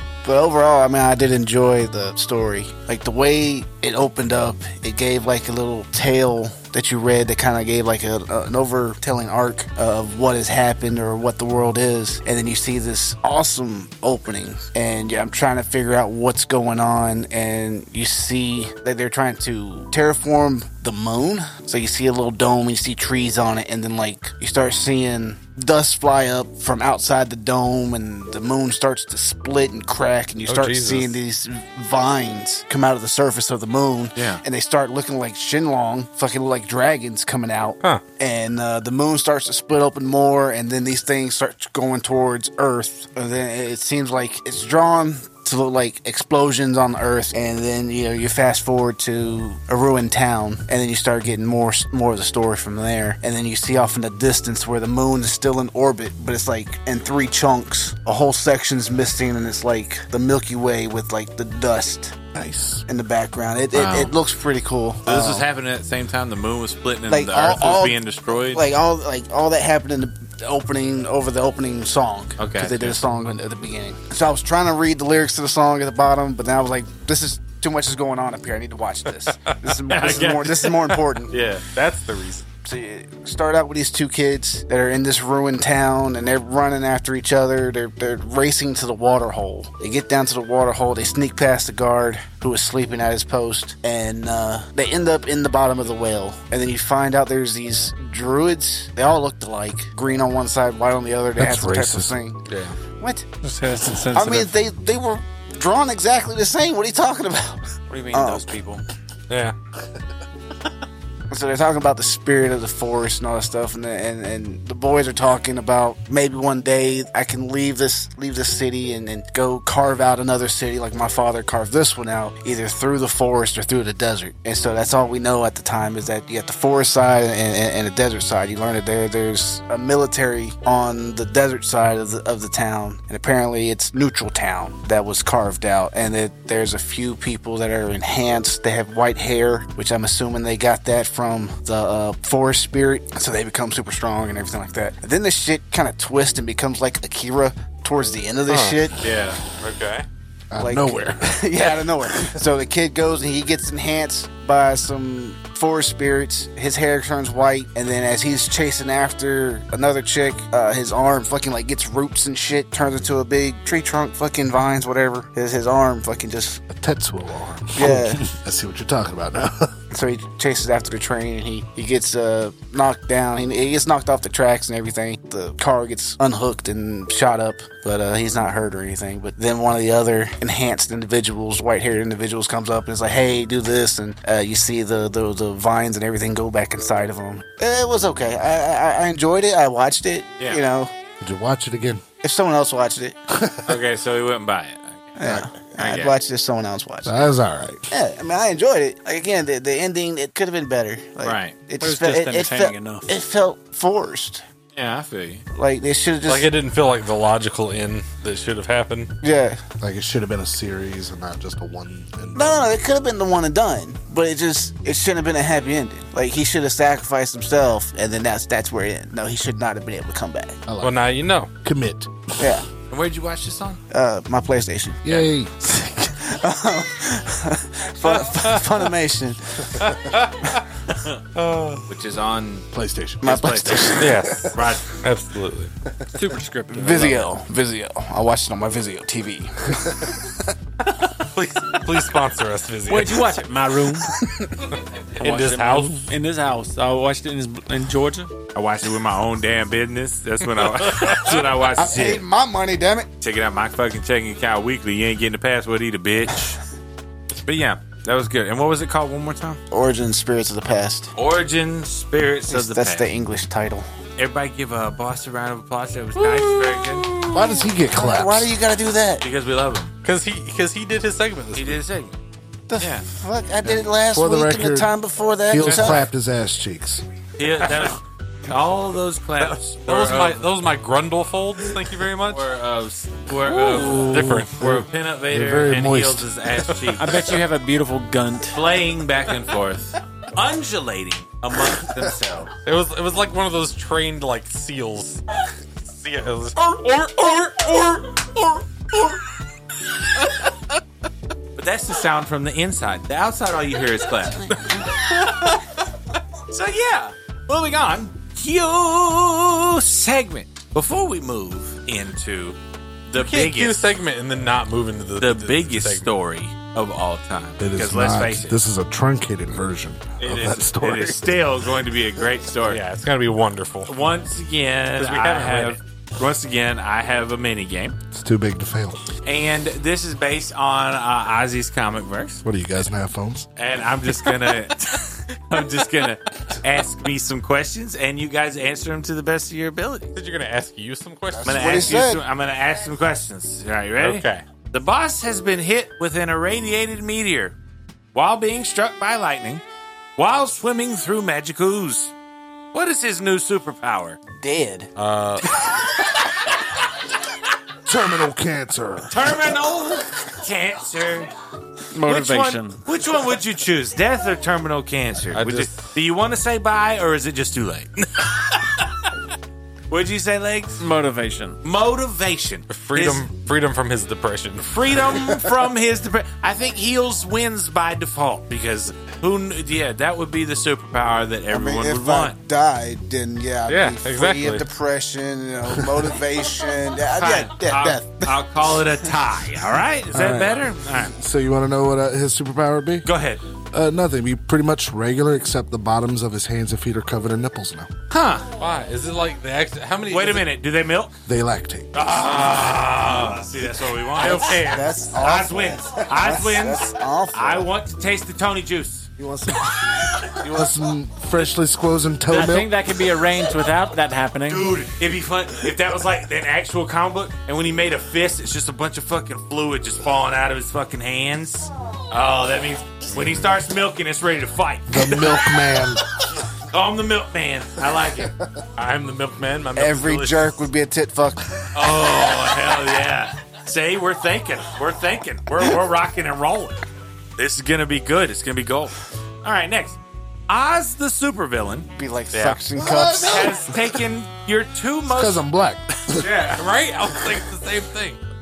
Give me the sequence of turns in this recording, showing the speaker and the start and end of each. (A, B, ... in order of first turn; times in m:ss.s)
0:00.2-1:02.2 A
0:30.5-0:31.2 B
0:34.2-0:34.4 C
1:02.3-1:02.8 D
1:02.9-1:05.4 A
1:03.8-1:04.1 E
1:05.0-1:08.6 C
1:07.1-1:21.3 A
1:12.4-1:13.0 C
1:19.3-1:20.5 B
1:19.9-1:20.7 C
1:21.3-1:22.4 B
1:22.6-1:42.4 A
1:41.4-1:42.2 D
1:42.5-1:42.8 B
1:43.0-1:43.2 A
1:43.4-1:44.5 E
1:44.1-1:48.6 A
1:47.9-1:48.8 E
1:49.3-1:49.5 B
1:51.3-2:29.0 A
2:28.5-2:30.0 B
2:30.5-2:32.2 D
2:30.6-2:46.6 A
2:46.7-2:49.8 D
2:47.7-2:48.2 A
2:49.9-3:10.9 A
3:11.2-3:12.0 D
3:12.2-3:13.2 A
3:13.3-3:13.8 D
3:13.6-3:16.2 C
3:15.2-3:17.2 A
3:17.0-3:17.9 D
3:17.9-3:24.4 A
3:21.2-3:21.6 C
3:21.8-3:23.1 E
3:24.7-3:25.4 C
3:25.5-3:26.5 A
3:26.2-3:29.1 B
3:29.2-3:29.6 A
3:29.8-3:32.7 D
3:32.3-3:40.6 A
3:40.7-3:41.0 D
3:40.8-3:41.5 B
3:41.6-3:42.6 D
3:42.4-3:42.6 A
3:42.9-3:43.8 C
3:43.9-3:45.0 A
3:45.0-3:45.5 D
3:45.6-3:49.9 A
3:48.0-3:48.6 B
3:49.8-3:50.6 B
3:51.3-3:51.9 B
3:51.9-3:52.7 C
3:52.7-3:54.5 D
3:53.2-3:54.1 A
3:53.2-3:54.9 C
3:54.0-3:55.7 B
3:56.1-3:57.3 E
3:56.7-4:00.3 A
4:01.0-4:03.4 B
4:02.9-4:04.1 E
4:04.2-4:04.5 A
4:05.2-4:06.1 B
4:05.2-4:08.3 E
4:08.5-4:12.2 C
4:10.8-4:11.4 B
4:11.8-4:13.1 A
4:13.2-4:16.6 C
4:17.4-4:19.6 C
4:19.7-4:21.1 A
4:21.2-4:23.1 C
4:22.5-4:23.9 A
4:24.2-4:27.1 C
4:26.2-4:29.2 A
4:27.3-4:28.5 D
4:29.2-4:29.9 C
4:30.0-4:31.8 B
4:31.5-4:32.1 C
4:32.7-4:36.0 A
4:32.8-4:33.0 C
4:33.6-4:34.9 D
4:35.5-4:37.0 D
4:35.6-4:36.0 C
4:37.4-4:40.5 C
4:39.4-4:42.5 B
4:42.3-4:47.1 C
4:43.5-4:46.3 D
4:43.9-4:44.8 B
4:47.0-4:48.6 E
4:48.5-4:52.5 C
4:52.6-4:55.2 B
4:55.8-4:58.0 B
5:01.6-5:05.6 C
5:05.2-5:05.6 B
5:06.5-5:13.8 C
5:13.2-5:16.1 B
5:15.2-5:18.6 C
5:17.6-5:21.4 D
5:20.2-5:22.8 C
5:22.7-5:23.9 B
5:23.8-5:28.0 C
5:25.0-5:25.8 B
5:28.1-5:29.0 D
5:29.2-5:32.4 C
5:32.4-5:33.5 D
5:33.6-5:40.1 C
5:40.1-5:41.9 B
5:41.4-5:42.2 A
5:41.4-5:47.6 C
5:44.0-5:44.4 B
5:48.1-5:49.6 C
5:50.2-5:52.1 C
5:52.7-5:54.2 C
5:54.4-5:54.9 A
5:55.0-5:55.5 B
5:57.8-5:59.2 D
5:59.1-6:01.3 C
6:01.9-6:02.8 E
6:02.0-6:08.0 C
6:05.3-6:05.8 B
6:09.9-6:10.8 C
6:10.8-6:11.6 E
6:11.6-6:13.3 C
6:12.7-6:15.2 B
6:14.6-6:22.4 C
6:21.5-6:28.3 A
6:23.7-6:24.7 B
6:27.1-6:31.1 C
6:30.1-6:33.1 D
6:33.0-6:33.4 C
6:33.7-6:37.9 D
6:38.1-6:38.5 C
6:38.6-6:40.5 B
6:40.1-6:41.1 C
6:41.2-6:41.9 D
6:41.9-6:49.1 C
6:42.1-6:43.4 B
6:44.2-6:45.0 B
6:44.6-6:47.7 A
6:49.2-6:52.7 D
6:52.3-6:54.7 E
6:54.5-7:05.4 C
7:04.9-7:06.0 D
7:06.7-7:08.3 C
7:08.8-7:10.7 B
7:09.7-7:11.5 A
7:11.7-7:16.8 C
7:17.4-7:22.6 C
7:22.0-7:23.7 A
7:22.8-7:23.5 D
7:23.1-7:25.4 C
7:25.1-7:26.3 D
7:26.2-7:26.6 C
7:26.3-7:28.2 B